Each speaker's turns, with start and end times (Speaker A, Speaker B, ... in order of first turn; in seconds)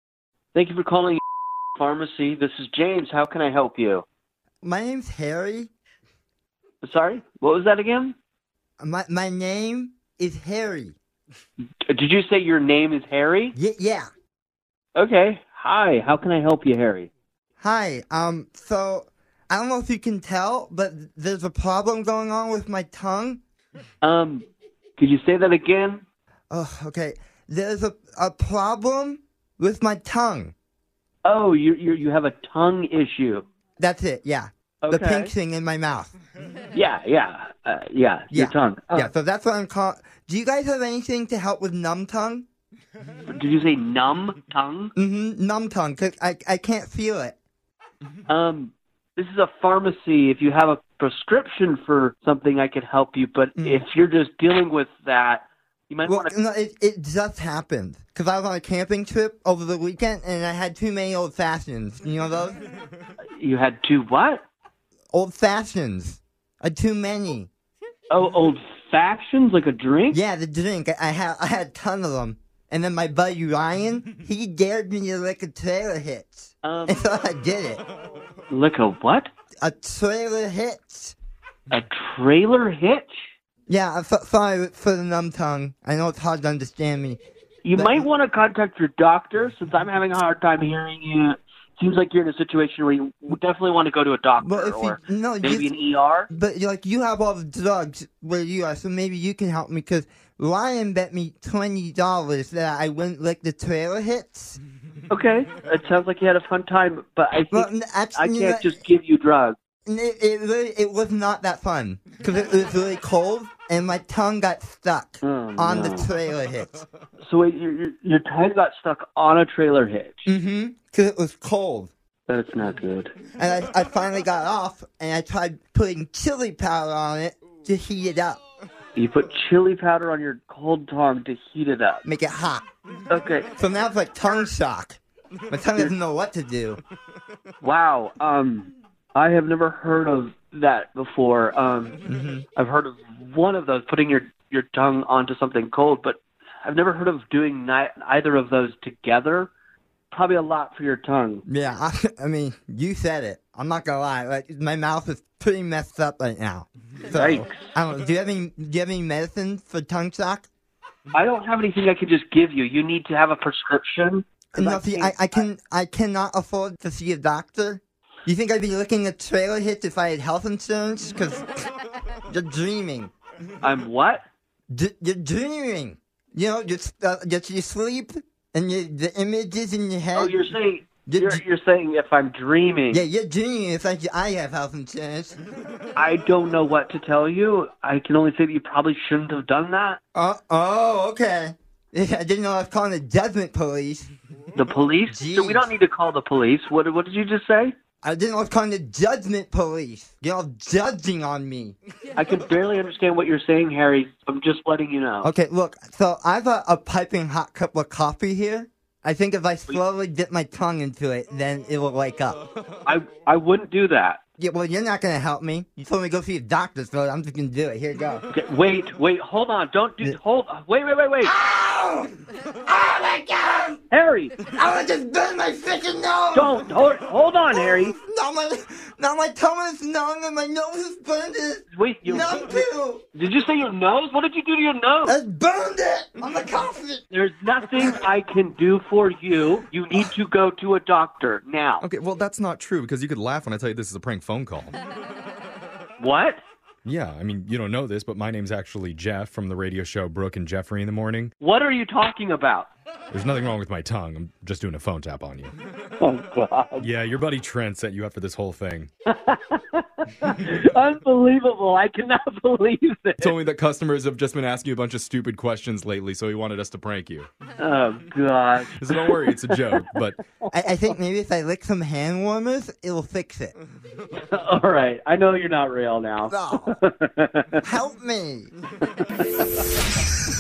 Speaker A: 0.5-1.2, 1.8-4.0, 6.8-8.2, 11.9-13.6, 14.9-17.1, 24.0-26.1, 31.2-33.5, 34.8-35.3, 36.7-39.1, 43.3-44.9, 48.3-56.3, 63.4-64.4, 68.1-70.2, 76.6-77.1, 78.5-79.3, 81.7-83.2, 87.6-96.3, 105.1-109.6, 115.2-116.1, 117.2-120.3, 122.3-123.1, 128.9-132.0, 133.1-133.5, 137.6-142.0, 142.6-149.5, 150.1-151.4, 157.1-157.7, 161.1-165.4, 173.6-174.2, 180.1-183.0, 185.9-190.0, 194.6-197.8, 202.2-205.3, 212.8-214.2, 218.3-221.3, 223.9-224.3, 226.3-228.0, 231.7-235.2, 237.1-241.8, 246.0-246.4, 251.4-252.7, 256.0-256.9, 259.1-263.4, 267.6-269.6, 270.4-270.9, 274.2-277.6, 279.0-279.4
Speaker B: 4.6-5.7, 8.8-11.0, 13.6-14.1, 17.6-23.4, 26.5-30.5, 33.8-36.1, 38.3-42.5, 45.0-47.4, 53.6-53.9, 56.0-62.6, 65.1-67.5, 70.1-77.8, 79.6-81.2, 83.7-87.2, 87.8-88.1, 94.4-95.7, 96.3-104.6, 107.5-108.8, 109.9-116.8, 120.3-121.9, 123.4-128.4, 132.1-132.7, 133.6-136.8, 142.1-142.4, 151.5-160.5, 164.5-171.7, 172.3-173.1, 174.7-180.5, 181.1-181.4, 182.9-185.4, 190.2-194.1, 195.1-195.7, 198.0-201.8, 205.2-212.4, 214.4-218.3, 221.2-222.1, 222.7-223.8, 224.5-226.6, 227.5-233.0, 235.1-237.0, 270.5-273.5, 276.3-276.8, 277.6-278.5
Speaker C: 241.8-244.8, 246.8-251.3, 253.1-255.5, 256.8-258.9, 263.2-267.3, 268.7-270.2